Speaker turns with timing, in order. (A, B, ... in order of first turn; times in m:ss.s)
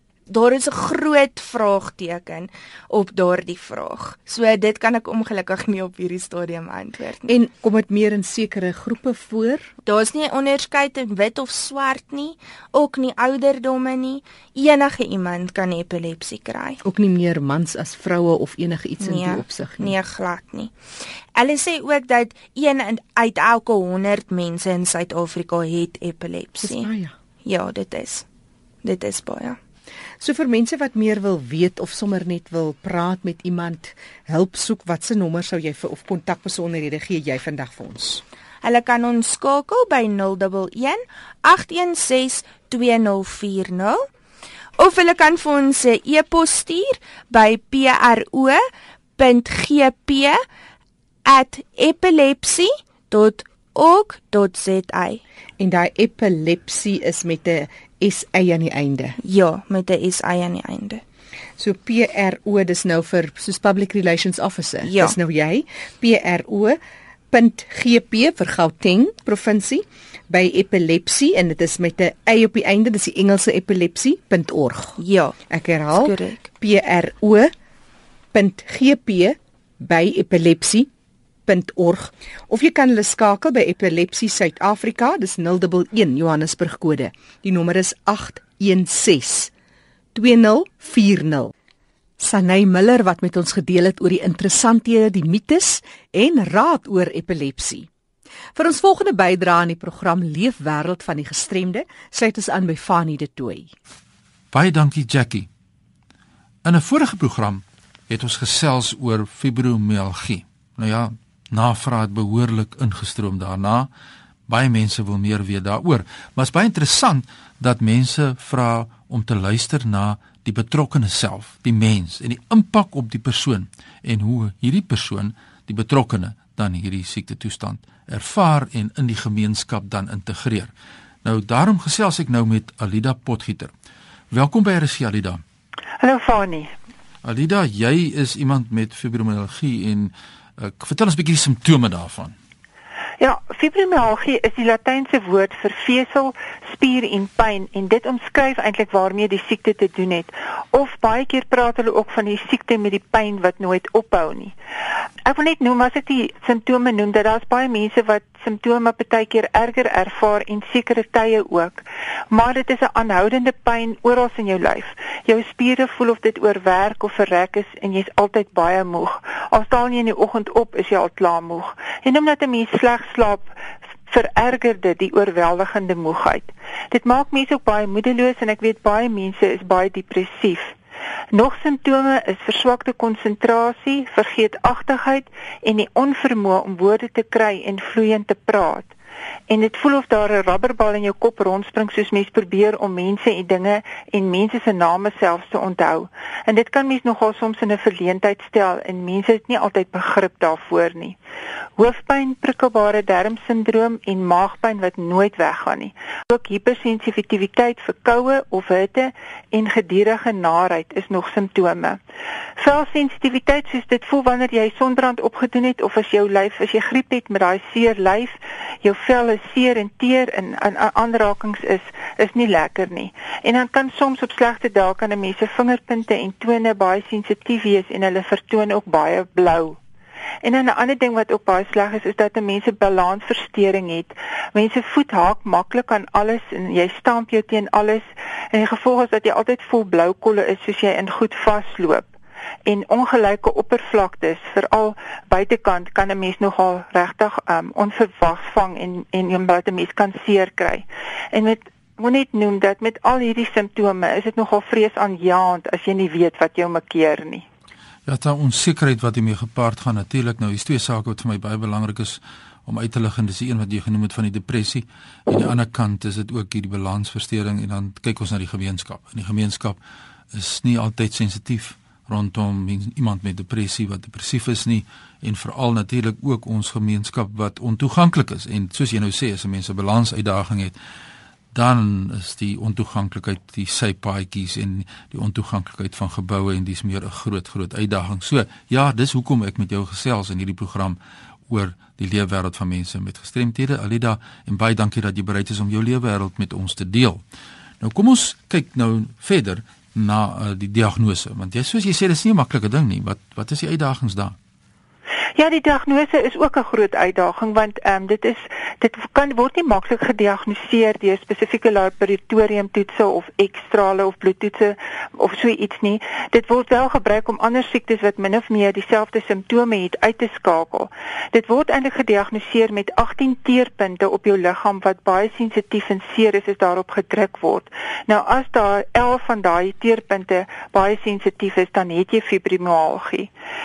0:00.3-0:07.4 A
0:07.3-0:09.7 B
0:09.9-0:16.8 A
0:16.8-0:19.9 B
0:19.0-0:20.7 A
0:21.4-0:26.9 A
0:26.6-0:27.1 B
0:27.4-0:28.3 A
0:28.8-0:29.6 A
0:30.2-0:38.2 B
0:38.6-0:44.1 A
0:44.8-0:48.6 A
0:49.2-0:50.4 A
0:51.2-0:55.2 A
0:55.6-0:59.2 B
0:59.2-1:01.0 A
1:01.6-1:06.8 B
1:04.8-1:05.2 A
1:07.3-1:17.5 B
1:15.0-1:15.4 A
1:16.0-1:16.5 A
1:18.3-1:20.9 B
1:21.5-1:29.5 B
1:30.1-1:31.5 B
1:32.2-1:37.9 B
1:38.6-1:43.7 B
1:44.5-1:45.5 C
1:46.6-1:53.9 C
1:54.5-2:10.7 C
2:11.2-2:13.7 C
2:14.3-2:15.4 C
2:16.0-2:16.7 D
2:17.2-2:22.3 C
2:23.2-2:34.6 D
2:35.2-2:53.5 D
2:54.1-3:00.7 D
3:01.3-3:08.9 D
3:09.5-3:21.2 D
3:21.8-3:32.0 D
3:32.6-3:49.8 D
3:50.4-4:02.1 D
4:02.7-4:17.4 D
4:18.1-4:29.8 C
4:30.3-4:40.8 C
4:41.5-4:51.0 C
4:51.5-4:57.2 C
4:57.8-5:04.4 C
5:05.4-5:33.3 D